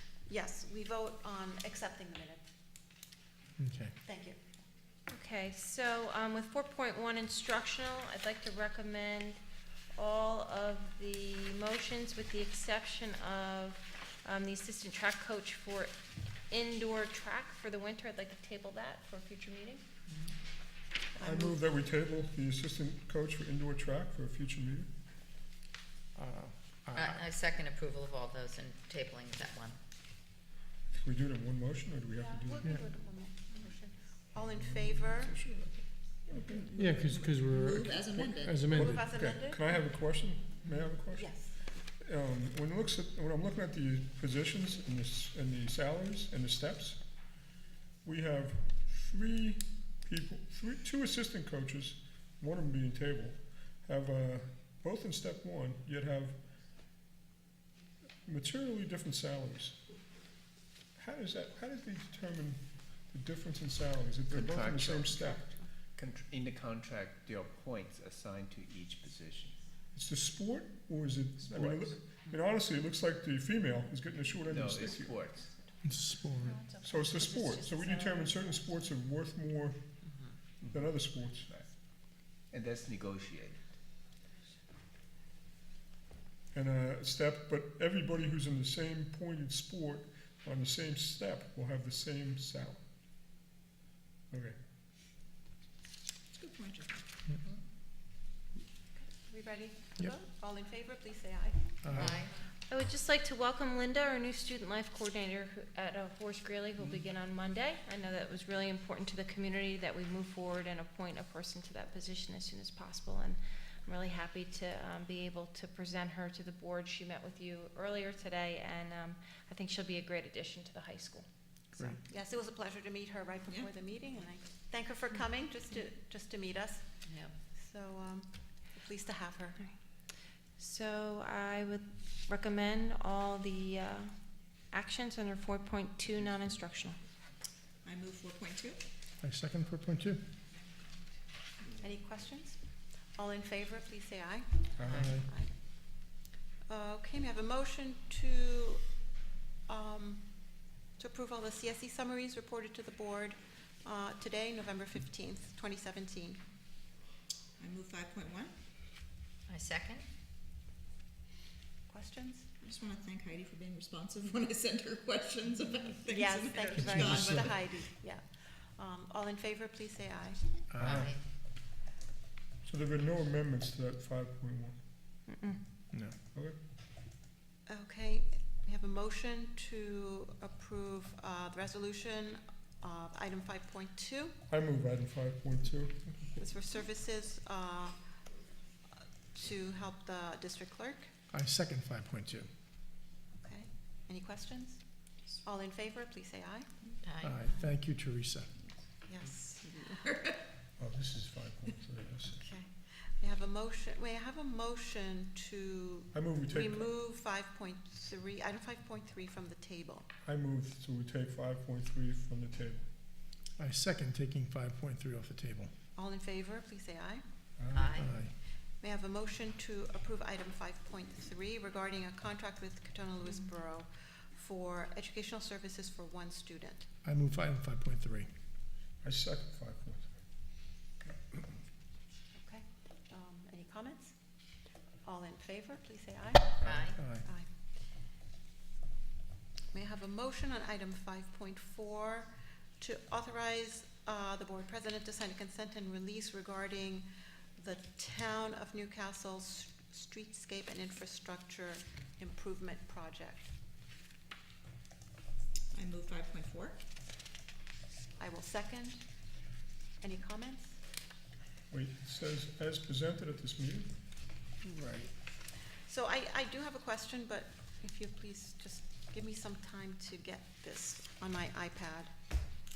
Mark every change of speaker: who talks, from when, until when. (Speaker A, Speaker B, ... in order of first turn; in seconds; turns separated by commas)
Speaker A: 0.3-2.5, Speaker B: 3.6-3.9, Speaker A: 4.0-4.4, Speaker C: 5.1-9.4, Speaker C: 9.9-15.9, Speaker C: 16.5-19.8, Speaker A: 21.1-21.6, Speaker D: 21.2-24.9, Speaker B: 26.1-27.2, Speaker E: 26.9-29.8, Speaker D: 30.9-32.7, Speaker A: 32.2-35.4, Speaker D: 34.4-35.6, Speaker D: 36.3-36.7, Speaker F: 36.4-38.9, Speaker B: 36.7-39.1, Speaker A: 38.7-39.6, Speaker D: 39.0-41.4, Speaker A: 41.1-41.6, Speaker D: 42.0-47.0, Speaker D: 48.0-56.4, Speaker D: 58.2-59.8, Speaker D: 61.0-65.5, Speaker G: 64.3-69.6, Speaker D: 69.9-75.2, Speaker G: 71.4-72.0, Speaker G: 74.5-75.6, Speaker B: 75.8-76.6, Speaker C: 76.2-78.8, Speaker D: 76.8-79.8, Speaker G: 80.6-80.9, Speaker D: 80.7-81.5, Speaker G: 81.4-81.7, Speaker G: 82.5-83.7, Speaker D: 86.5-92.8, Speaker D: 94.3-94.6, Speaker F: 96.3-97.1, Speaker A: 99.0-102.2, Speaker B: 101.8-102.2, Speaker E: 102.0-102.3, Speaker C: 102.7-122.0, Speaker A: 122.0-126.9, Speaker A: 127.5-129.7, Speaker C: 130.6-137.0, Speaker F: 137.8-138.8, Speaker B: 139.2-140.2, Speaker A: 141.8-145.5, Speaker D: 144.8-145.1, Speaker B: 144.9-145.2, Speaker A: 146.7-148.9, Speaker A: 149.7-150.4, Speaker A: 151.0-156.4, Speaker F: 157.6-158.5, Speaker E: 159.5-160.0, Speaker A: 161.9-162.5, Speaker F: 162.6-167.6, Speaker A: 166.1-170.4, Speaker B: 166.6-167.5, Speaker B: 170.7-171.1, Speaker E: 170.8-171.2, Speaker D: 172.6-174.8, Speaker C: 175.3-175.6, Speaker B: 175.9-176.2, Speaker A: 177.7-184.4, Speaker D: 184.5-186.3, Speaker A: 186.4-188.0, Speaker A: 189.3-191.1, Speaker B: 191.3-192.5, Speaker A: 193.4-196.7, Speaker B: 197.2-198.5, Speaker A: 197.4-197.7, Speaker A: 199.0-200.0, Speaker F: 199.6-200.4, Speaker D: 200.8-202.4, Speaker A: 202.4-210.1, Speaker D: 206.1-206.9, Speaker D: 210.2-212.8, Speaker B: 213.6-215.7, Speaker A: 215.9-217.2, Speaker D: 217.6-218.0, Speaker B: 217.9-218.3, Speaker A: 218.7-226.8, Speaker B: 227.0-228.3, Speaker D: 229.0-230.1, Speaker A: 232.3-234.2, Speaker A: 235.0-237.5, Speaker B: 236.9-237.2, Speaker A: 239.7-253.5, Speaker F: 255.7-256.8, Speaker A: 258.2-259.0, Speaker A: 260.0-260.8, Speaker D: 261.7-263.9, Speaker B: 264.6-265.1, Speaker A: 265.8-272.1